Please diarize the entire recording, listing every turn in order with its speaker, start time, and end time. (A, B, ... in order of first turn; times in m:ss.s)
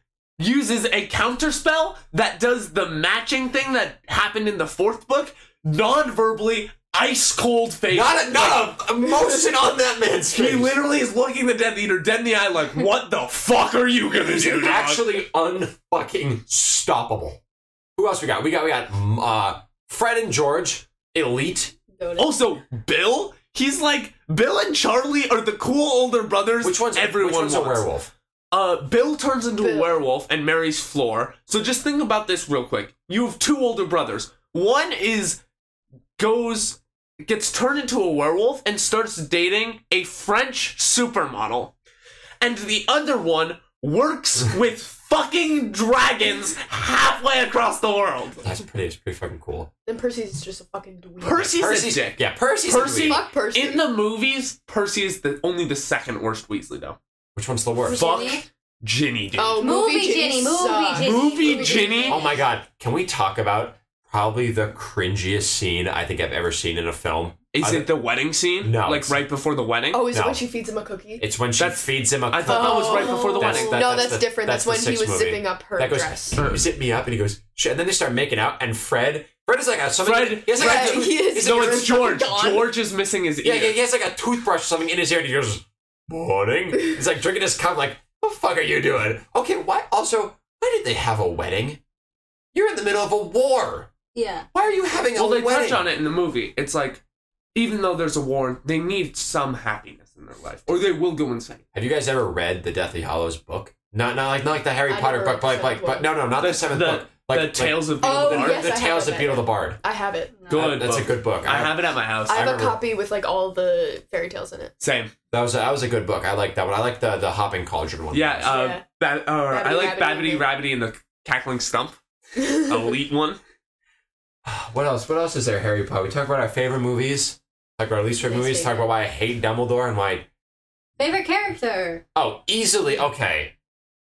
0:00.4-0:08.8 A
0:07.9-0:10.8 B
0:10.3-0:15.1 A
0:14.3-0:17.4 B
0:18.0-0:21.7 B
0:22.0-0:22.2 C
0:22.2-0:27.9 A
0:26.6-0:28.1 B
0:28.5-0:35.4 A
0:29.6-0:30.0 C
0:36.2-0:41.7 A
0:42.4-0:48.4 A
0:48.4-0:49.7 B
0:49.9-0:51.5 C
0:51.2-0:57.0 A
0:51.4-0:53.2 B
0:52.9-0:53.8 C
0:57.4-0:58.0 B
0:57.8-0:58.4 D
0:57.9-0:59.7 A
0:59.4-1:02.2 C
0:59.6-1:02.2 D
1:01.0-1:02.2 A
1:02.1-1:07.9 B
1:07.5-1:10.1 A
1:08.6-1:09.2 B
1:09.9-1:11.3 C
1:10.1-1:10.4 B
1:11.2-1:22.0 B
1:11.6-1:14.0 A
1:12.5-1:16.4 C
1:13.1-1:13.5 D
1:16.4-1:16.6 A
1:20.0-1:23.8 A
1:20.5-1:22.8 C
1:23.4-1:31.8 B
1:32.5-1:33.9 B
1:34.1-1:34.5 D
1:34.5-1:35.8 B
1:35.2-1:37.0 A
1:37.6-1:41.6 A
1:41.7-1:49.8 B
1:44.9-1:46.1 C
1:46.4-1:48.7 A
1:48.0-1:50.4 C
1:50.5-1:52.4 A
1:50.5-1:52.8 B
1:52.3-1:54.7 C
1:54.8-1:55.1 A
1:55.3-1:58.5 B
1:58.1-2:03.4 A
1:58.4-1:58.8 C
1:59.5-2:00.5 C
2:02.4-2:02.8 C
2:04.4-2:10.3 B
2:08.2-2:08.9 D
2:11.0-2:12.0 D
2:12.2-2:13.5 B